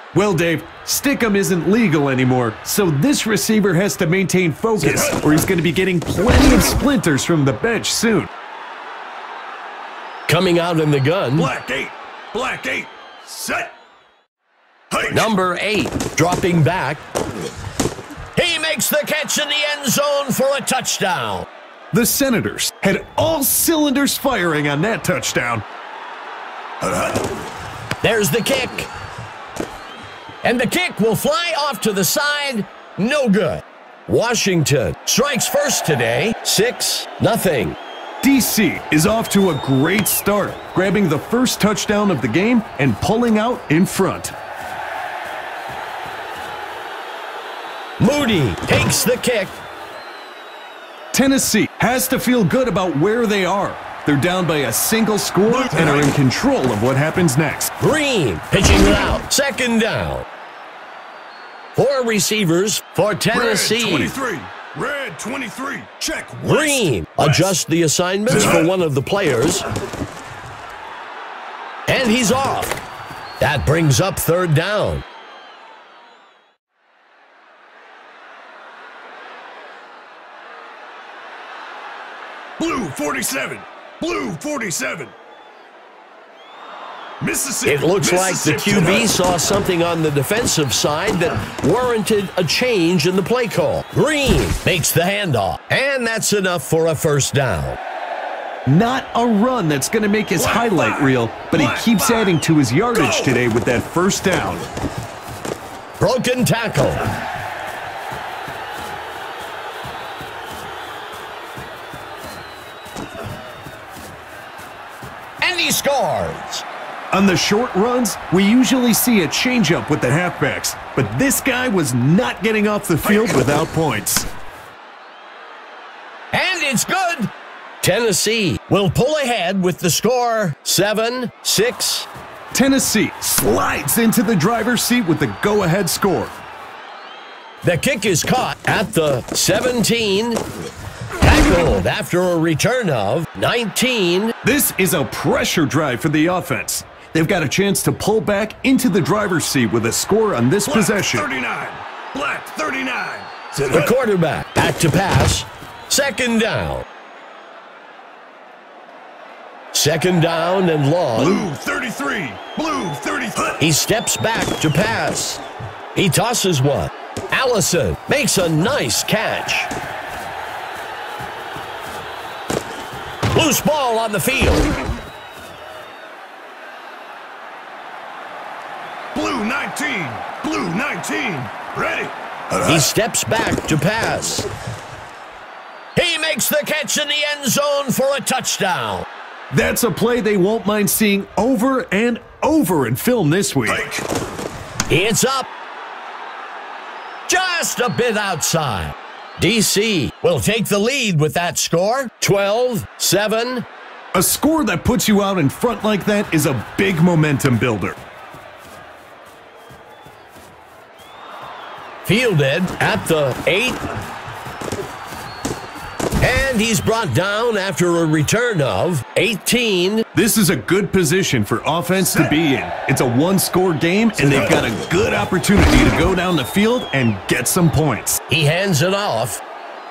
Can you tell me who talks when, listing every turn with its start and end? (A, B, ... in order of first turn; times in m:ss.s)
0:00.1-0:08.3 A
0:04.8-0:05.2 B
0:10.3-0:11.5 C
0:11.4-0:13.7 B
0:14.9-0:15.3 B
0:15.1-0:17.0 C
0:18.3-0:21.5 C
0:21.9-0:25.6 A
0:28.0-0:28.9 C
0:30.4-0:37.8 C
0:38.2-0:44.3 A
0:48.0-0:49.6 C
0:51.1-0:57.7 A
0:55.5-0:56.1 B
0:57.8-1:00.2 C
1:01.7-1:04.2 C
1:03.3-1:07.5 B
1:06.4-1:09.6 C
1:08.3-1:08.7 B
1:11.9-1:12.8 C
1:13.4-1:15.0 C
1:22.6-1:25.1 B
1:27.2-1:29.1 B
1:27.6-1:37.8 C
1:38.7-1:44.7 A
1:40.3-1:42.4 B
1:42.9-1:43.4 B
1:46.0-1:47.0 C
1:55.4-1:56.6 C
1:57.1-2:04.3 A
2:03.1-2:03.4 B
2:06.3-2:12.1 C
2:12.5-2:16.3 A
2:17.6-2:20.4 C
2:21.2-2:24.3 C
2:24.4-2:31.3 A
2:30.6-2:33.9 B
2:33.7-2:36.8 C
2:39.7-2:41.5 C
2:41.1-2:43.6 B
2:43.6-2:45.4 C
2:45.9-2:49.7 C
2:53.3-2:54.7 C
2:59.1-3:02.9 B
3:02.6-3:04.5 C
3:05.9-3:09.1 C
3:09.5-3:13.8 A
3:13.7-3:14.0 B
3:14.9-3:15.5 C
3:17.3-3:23.6 C
3:24.1-3:27.9 A
3:32.0-3:33.8 C
3:36.2-3:40.0 C
3:40.1-3:48.2 A
3:42.0-3:42.4 B
3:44.2-3:44.6 B
3:48.3-3:49.4 C